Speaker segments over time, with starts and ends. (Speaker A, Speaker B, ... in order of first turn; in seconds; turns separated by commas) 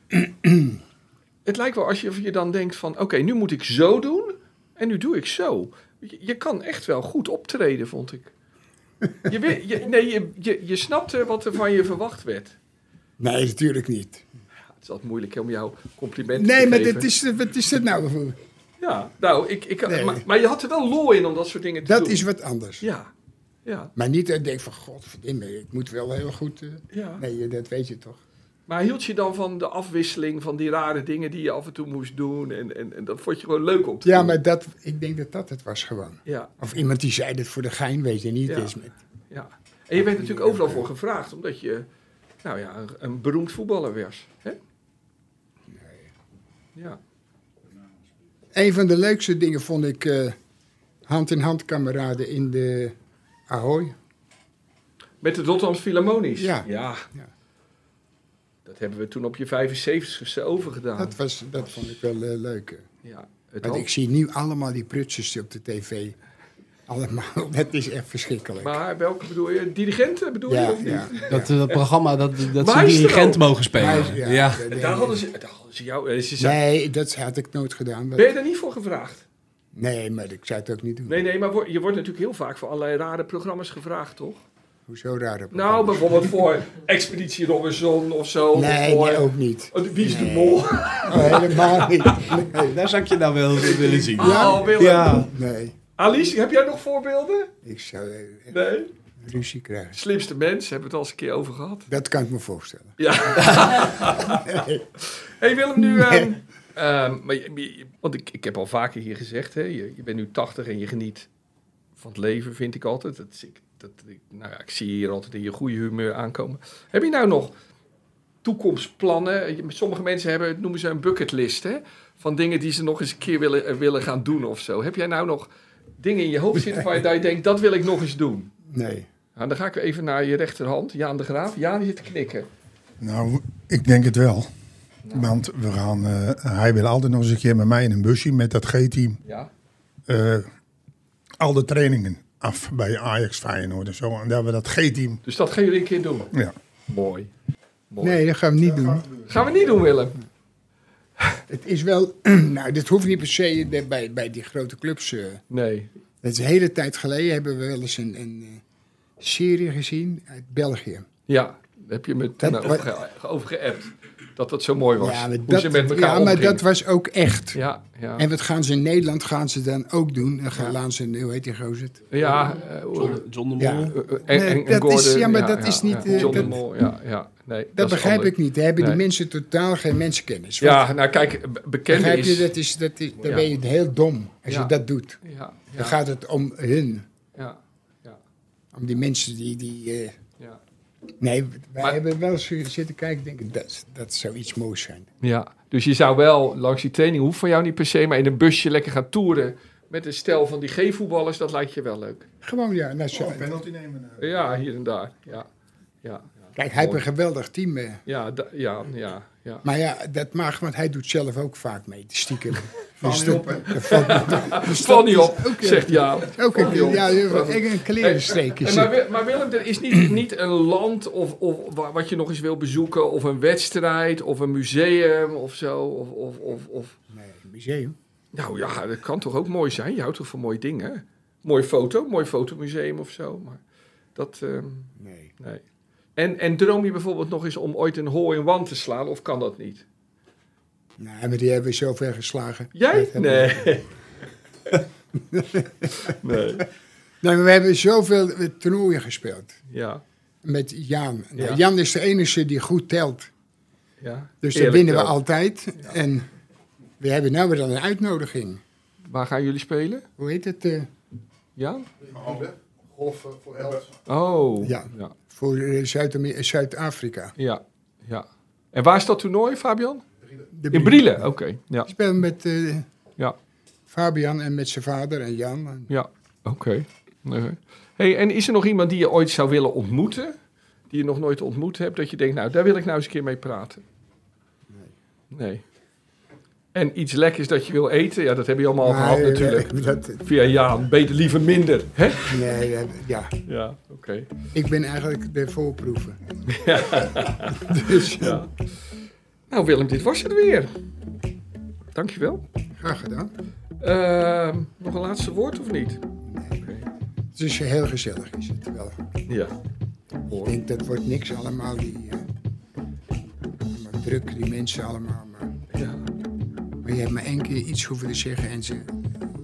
Speaker A: 0.2-0.8, Speaker B: 1.4-8.3, Speaker B: 9.2-12.6, Speaker A: 13.2-14.3, Speaker B: 14.8-17.1, Speaker A: 16.4-18.4, Speaker B: 18.8-22.3, Speaker A: 19.9-20.2, Speaker A: 21.9-22.9, Speaker B: 22.8-23.1, Speaker B: 23.6-23.9, Speaker A: 24.0-28.2, Speaker B: 26.9-27.2, Speaker B: 28.7-34.4, Speaker A: 34.0-38.9, Speaker B: 36.3-36.5, Speaker B: 38.5-38.7, Speaker B: 39.3-41.9, Speaker A: 40.0-40.9, Speaker B: 42.4-44.6, Speaker A: 45.7-46.0, Speaker A: 48.5-50.4, Speaker A: 51.1-53.0, Speaker A: 53.5-54.0, Speaker B: 55.2-57.0, Speaker A: 56.4-57.3, Speaker B: 58.6-61.7, Speaker A: 61.0-62.9, Speaker B: 63.0-63.9, Speaker A: 63.6-66.2, Speaker A: 66.9-68.8, Speaker B: 68.6-71.8, Speaker A: 70.5-71.2, Speaker C: 71.3-74.6, Speaker B: 72.5-74.0, Speaker A: 73.8-75.2, Speaker B: 74.7-76.6, Speaker A: 76.4-78.3, Speaker B: 78.2-79.2, Speaker A: 79.8-81.2, Speaker B: 81.1-84.4, Speaker A: 84.9-86.3, Speaker B: 85.5-92.3, Speaker A: 88.5-92.8, Speaker C: 92.6-95.3, Speaker A: 93.6-95.8, Speaker B: 93.8-95.3, Speaker B: 96.0-97.5, Speaker A: 97.6-98.6, Speaker B: 98.5-98.9, Speaker A: 99.2-100.0, Speaker B: 99.9-101.9, Speaker A: 101.9-104.9, Speaker B: 103.0-111.3, Speaker A: 105.8-106.3, Speaker B: 112.0-117.5, Speaker B: 118.4-125.5, Speaker B: 126.0-128.5, Speaker A: 128.7-129.1, Speaker B: 129.4-132.5, Speaker D: 133.0-134.5, Speaker B: 135.1-135.3, Speaker D: 135.1-139.2, Speaker B: 139.2-139.5, Speaker D: 140.1-140.5, Speaker D: 141.4-145.2, Speaker B: 145.2-146.3, Speaker B: 146.9-147.3, Speaker B: 147.9-148.2, Speaker A: 148.0-149.1, Speaker D: 148.7-149.9, Speaker B: 149.3-150.2, Speaker A: 151.5-155.4, Speaker B: 155.5-155.9, Speaker A: 156.2-158.6, Speaker A: 159.2-161.1, Speaker B: 161.3-166.6, Speaker A: 162.4-162.9, Speaker A: 165.0-167.6, Speaker B: 167.5-168.3, Speaker A: 168.2-172.3, Speaker B: 172.1-173.2, Speaker C: 172.9-174.0, Speaker A: 173.6-176.6, Speaker B: 173.9-179.0, Speaker C: 176.1-176.5, Speaker A: 177.8-180.9, Speaker B: 180.6-182.5, Speaker A: 181.9-185.2, Speaker B: 183.2-183.5, Speaker B: 184.5-186.0, Speaker A: 185.7-187.1, Speaker B: 187.4-188.2, Speaker A: 188.7-190.1, Speaker A: 191.2-195.1, Speaker B: 195.2-202.3, Speaker A: 202.4-203.5, Speaker D: 203.1-204.2, Speaker B: 204.2-205.5, Speaker B: 206.0-207.0, Speaker A: 206.6-208.0, Speaker B: 208.1-209.7, Speaker A: 209.6-219.0, Speaker D: 213.0-214.2, Speaker B: 213.3-227.0, Speaker A: 227.1-228.0, Speaker B: 228.3-233.6, Speaker B: 234.2-235.6, Speaker A: 235.0-235.3, Speaker B: 236.2-239.8, Speaker A: 241.0-243.8, Speaker B: 242.8-243.9, Speaker A: 245.1-246.4, Speaker B: 246.0-246.7, Speaker A: 247.2-249.6, Speaker B: 249.7-250.0, Speaker A: 250.4-253.3, Speaker B: 251.4-251.6, Speaker B: 254.0-255.2, Speaker A: 254.4-256.3, Speaker A: 257.0-258.6, Speaker B: 259.0-260.1, Speaker A: 260.2-260.9, Speaker B: 261.6-261.9, Speaker D: 262.0-263.9, Speaker B: 264.1-265.1, Speaker A: 264.6-267.3, Speaker B: 267.4-270.1, Speaker A: 270.5-271.2, Speaker B: 270.7-271.9, Speaker A: 271.9-272.9, Speaker A: 273.9-275.9, Speaker B: 275.9-280.4, Speaker B: 280.9-283.8, Speaker B: 285.3-285.6, Speaker B: 286.7-292.5, Speaker A: 288.8-290.2, Speaker A: 292.2-293.3, Speaker B: 293.5-294.3, Speaker A: 294.5-296.2, Speaker B: 296.5-298.5, Speaker A: 297.5-298.5, Speaker B: 299.5-300.7, Speaker B: 301.9-302.4, Speaker A: 302.8-303.3, Speaker B: 303.8-306.0, Speaker A: 306.2-306.6, Speaker B: 306.5-306.9, Speaker A: 307.4-309.0, Speaker B: 309.3-309.5, Speaker B: 310.2-310.6, Speaker A: 310.3-312.3, Speaker A: 313.6-315.6, Speaker B: 315.7-316.0, Speaker A: 316.8-319.0